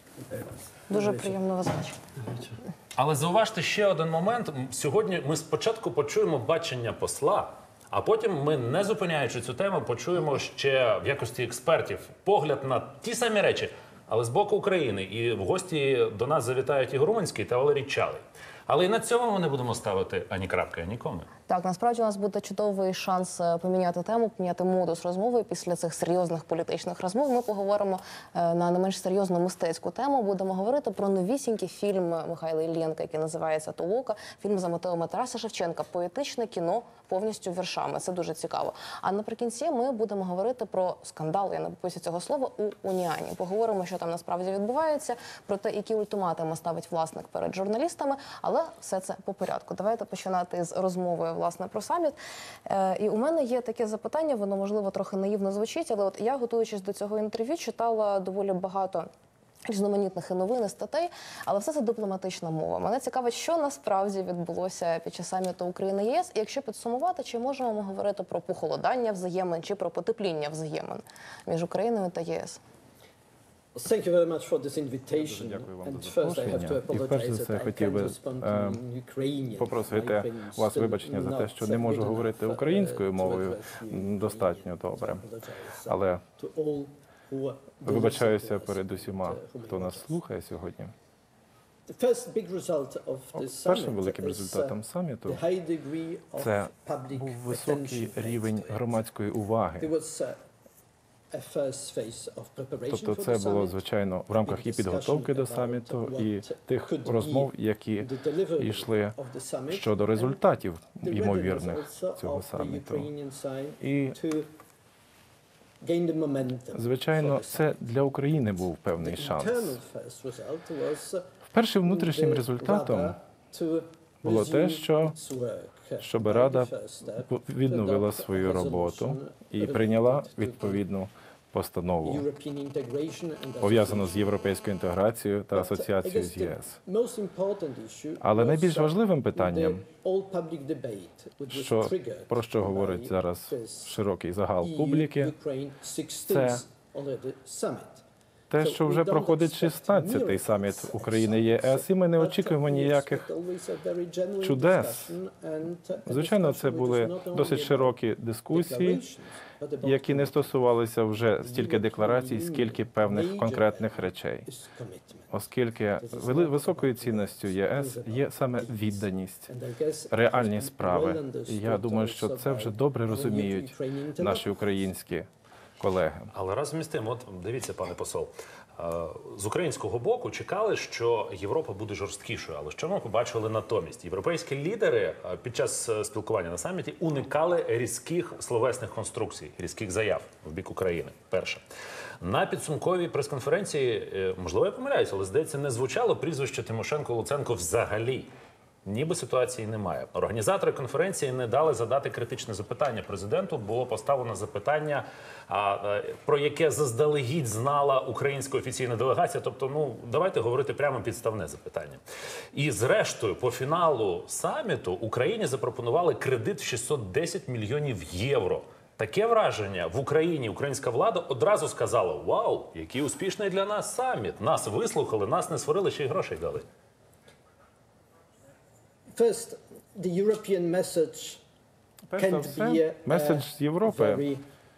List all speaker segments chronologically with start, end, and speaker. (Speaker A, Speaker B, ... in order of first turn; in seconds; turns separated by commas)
Speaker A: 0.3-1.3, Speaker B: 0.9-2.0, Speaker C: 2.9-21.3, Speaker B: 21.5-59.1, Speaker B: 59.6-72.6, Speaker A: 73.7-90.2, Speaker D: 75.1-78.8, Speaker D: 79.5-85.2, Speaker D: 85.8-86.2, Speaker D: 87.8-90.9, Speaker A: 91.9-98.9, Speaker D: 93.3-95.4, Speaker D: 96.4-99.9, Speaker A: 99.8-100.4, Speaker A: 101.3-103.8, Speaker D: 102.9-109.1, Speaker A: 104.4-110.4, Speaker D: 109.7-113.1, Speaker A: 111.0-114.5, Speaker D: 113.8-114.2, Speaker A: 115.8-117.8, Speaker D: 116.7-119.8, Speaker A: 119.0-121.3, Speaker D: 121.5-123.2, Speaker A: 121.8-130.8, Speaker D: 124.2-125.1, Speaker D: 126.0-132.2, Speaker A: 132.0-134.4, Speaker D: 133.6-136.8, Speaker A: 135.5-144.0, Speaker D: 138.2-139.8, Speaker D: 141.5-145.3, Speaker A: 144.6-148.0, Speaker D: 146.3-146.6, Speaker D: 148.5-153.2, Speaker A: 148.6-157.9, Speaker D: 154.4-155.2, Speaker D: 156.1-159.0, Speaker A: 158.5-160.6, Speaker D: 159.8-164.5, Speaker A: 161.4-165.3, Speaker D: 165.3-169.5, Speaker A: 166.0-174.7, Speaker D: 170.1-175.3, Speaker D: 175.8-176.3, Speaker C: 176.3-191.6, Speaker C: 192.2-198.3, Speaker C: 198.8-212.0, Speaker C: 212.5-226.6, Speaker A: 229.1-231.4, Speaker D: 232.1-234.2, Speaker A: 232.2-234.4